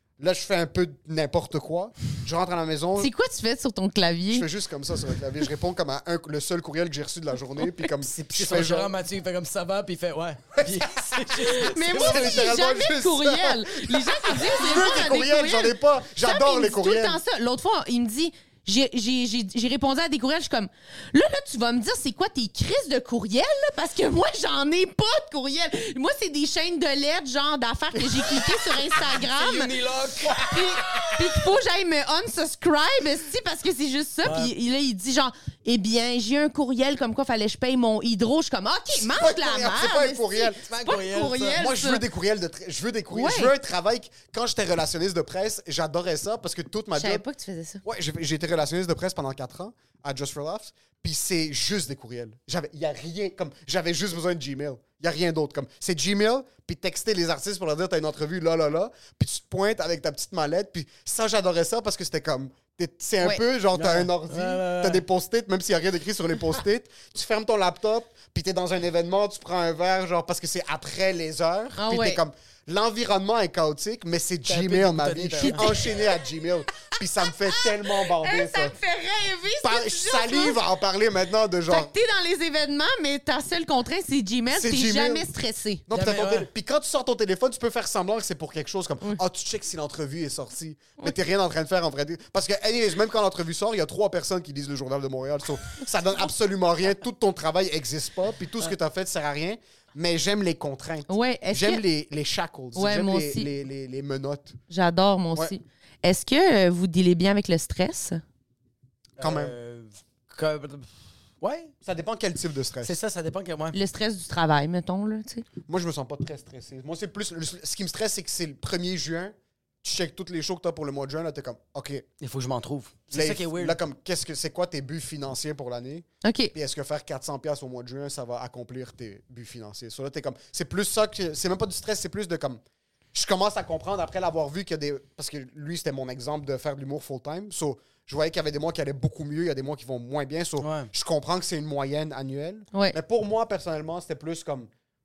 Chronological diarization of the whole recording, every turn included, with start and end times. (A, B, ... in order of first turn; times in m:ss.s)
0:00.2-0:03.1 A
0:03.0-0:04.5 B
0:04.3-0:08.9 A
0:08.0-0:12.4 C
0:10.6-0:17.2 A
0:11.5-0:29.7 B
0:29.0-0:31.0 C
0:30.3-0:42.0 B
0:30.9-0:31.1 A
0:34.2-0:34.5 C
0:38.9-0:40.6 A
0:40.6-0:41.6 C
0:41.5-0:47.2 A
0:43.1-0:43.5 B
0:46.9-0:47.8 B
0:47.8-1:18.8 A
1:03.7-1:05.0 C
1:11.8-1:12.2 B
1:14.5-1:15.6 C
1:15.4-1:15.9 B
1:17.5-1:20.6 B
1:19.6-1:21.9 A
1:21.7-1:25.8 B
1:24.5-1:25.3 A
1:25.9-1:44.6 A
1:25.9-1:26.5 C
1:41.1-1:41.8 B
1:42.7-1:43.5 B
1:44.7-1:48.2 B
1:49.2-1:50.9 C
1:49.2-1:49.5 A
1:51.4-1:51.7 C
1:51.8-1:52.9 A
1:52.8-1:53.8 C
1:53.7-1:55.4 B
1:55.7-2:02.0 A
2:02.2-2:03.8 C
2:03.1-2:12.6 A
2:06.2-2:06.5 B
2:13.1-2:24.7 A
2:20.6-2:20.9 C